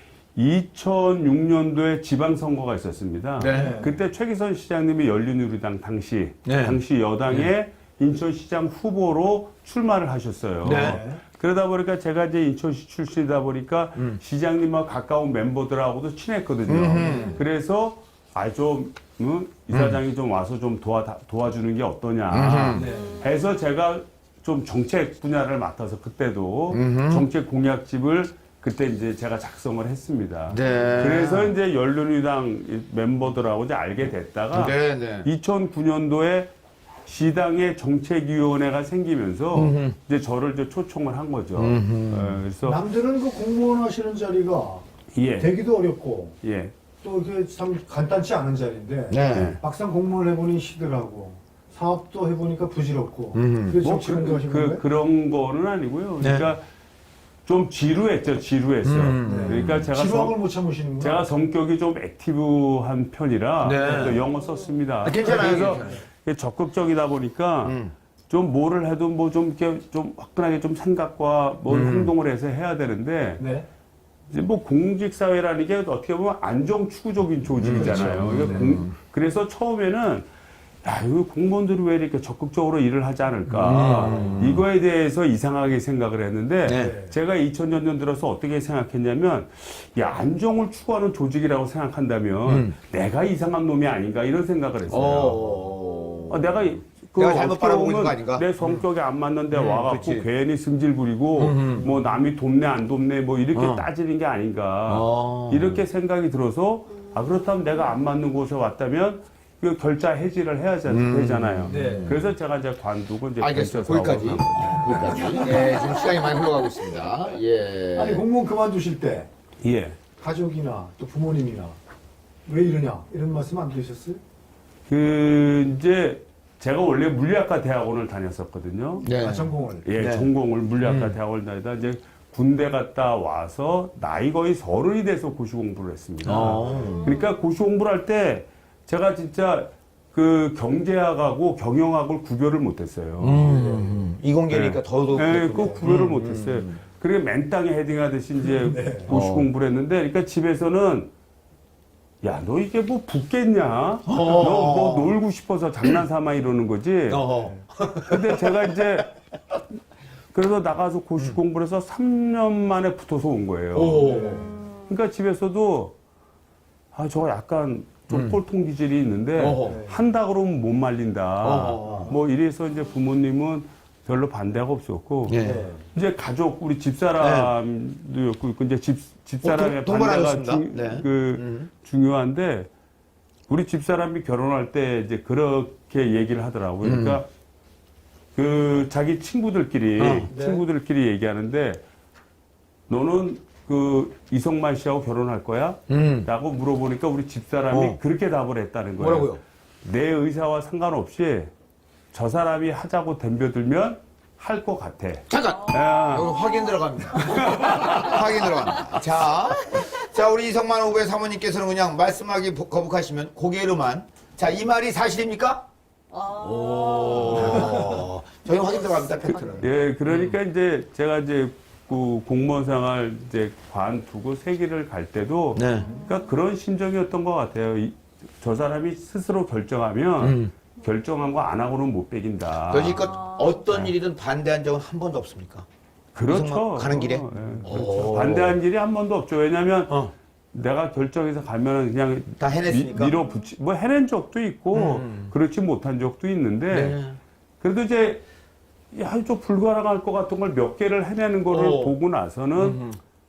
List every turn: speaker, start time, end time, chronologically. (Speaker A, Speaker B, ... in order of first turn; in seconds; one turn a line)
Speaker A: 0.4-36.5
Speaker B: 3.4-3.8
Speaker C: 3.5-4.0
Speaker B: 6.5-7.5
Speaker B: 10.6-11.0
Speaker C: 10.8-11.2
Speaker B: 16.6-17.4
Speaker C: 17.0-17.4
Speaker B: 19.7-20.0
Speaker B: 22.3-22.9
Speaker C: 22.7-23.2
Speaker D: 22.9-23.3
Speaker B: 26.7-27.3
Speaker B: 30.5-31.5
Speaker B: 34.5-35.3
Speaker A: 37.1-42.8
Speaker B: 39.5-40.0
Speaker B: 41.6-42.4
Speaker C: 42.6-46.4
Speaker A: 45.1-45.6
Speaker A: 46.4-46.7
Speaker C: 47.0-54.9
Speaker B: 49.1-49.6
Speaker A: 49.3-49.6
Speaker B: 53.3-53.8
Speaker A: 53.8-56.6
Speaker B: 56.2-56.5
Speaker A: 57.5-60.4
Speaker B: 58.8-59.9
Speaker C: 59.2-61.3
Speaker A: 61.0-67.8
Speaker B: 63.6-64.2
Speaker C: 63.8-64.2
Speaker B: 65.0-66.0
Speaker C: 65.2-66.0
Speaker B: 67.6-67.9
Speaker A: 68.3-73.5
Speaker B: 71.7-72.1
Speaker C: 73.4-73.7
Speaker A: 74.3-80.3
Speaker B: 77.6-78.9
Speaker C: 77.7-78.7
Speaker A: 80.8-95.5
Speaker B: 83.5-84.6
Speaker B: 86.6-87.0
Speaker C: 86.8-87.2
Speaker B: 92.5-92.8
Speaker B: 94.9-98.9
Speaker A: 96.3-115.4
Speaker B: 99.5-100.3
Speaker B: 101.4-101.9
Speaker B: 103.5-103.9
Speaker B: 104.9-105.9
Speaker B: 110.9-112.3
Speaker C: 111.7-112.2
Speaker B: 113.4-118.2
Speaker C: 114.7-115.7
Speaker D: 115.7-116.1
Speaker C: 118.0-119.3
Speaker A: 119.6-120.0
Speaker C: 120.2-121.8
Speaker C: 122.5-124.2
Speaker A: 124.9-129.1
Speaker B: 129.0-131.2
Speaker C: 129.1-129.9
Speaker A: 129.8-143.5
Speaker B: 136.2-137.1
Speaker C: 136.6-136.9
Speaker D: 136.9-137.4
Speaker B: 143.2-146.8
Speaker C: 143.5-144.1
Speaker A: 144.5-151.1
Speaker C: 148.4-149.2
Speaker B: 149.1-149.5
Speaker A: 152.2-157.2
Speaker B: 154.1-155.2
Speaker B: 157.1-158.7
Speaker C: 157.3-157.6
Speaker A: 158.1-159.1
Speaker A: 160.3-164.2
Speaker B: 163.7-164.5
Speaker C: 164.0-164.6
Speaker D: 164.3-164.9
Speaker A: 164.9-165.9
Speaker A: 166.9-175.4
Speaker B: 168.1-168.4
Speaker B: 169.4-169.8
Speaker C: 169.6-170.0
Speaker B: 171.4-172.1
Speaker C: 171.8-172.2
Speaker B: 175.2-175.6
Speaker C: 175.4-175.9
Speaker A: 175.9-182.7
Speaker B: 177.2-177.6
Speaker B: 179.4-181.7
Speaker A: 183.5-187.3
Speaker B: 186.8-187.2
Speaker A: 188.3-191.8
Speaker B: 190.0-190.3
Speaker C: 190.2-190.7
Speaker A: 192.9-201.5
Speaker B: 195.9-196.3
Speaker B: 197.7-198.0
Speaker B: 199.0-199.4
Speaker A: 202.1-206.3
Speaker B: 205.3-215.7
Speaker D: 205.4-208.2
Speaker A: 207.2-207.9
Speaker D: 216.1-218.0
Speaker B: 216.4-220.4
Speaker A: 217.2-217.7
Speaker D: 218.7-219.6
Speaker A: 219.2-233.1
Speaker B: 225.5-225.9
Speaker D: 225.8-226.3
Speaker B: 230.2-230.5
Speaker B: 232.7-235.7
Speaker D: 232.9-233.6
Speaker A: 236.1-247.0
Speaker B: 236.2-238.6
Speaker B: 242.4-243.2
Speaker D: 243.1-243.4
Speaker B: 244.7-245.3
Speaker B: 246.7-247.2
Speaker A: 247.6-248.2
Speaker A: 248.9-252.8
Speaker B: 251.5-252.0
Speaker B: 252.6-253.0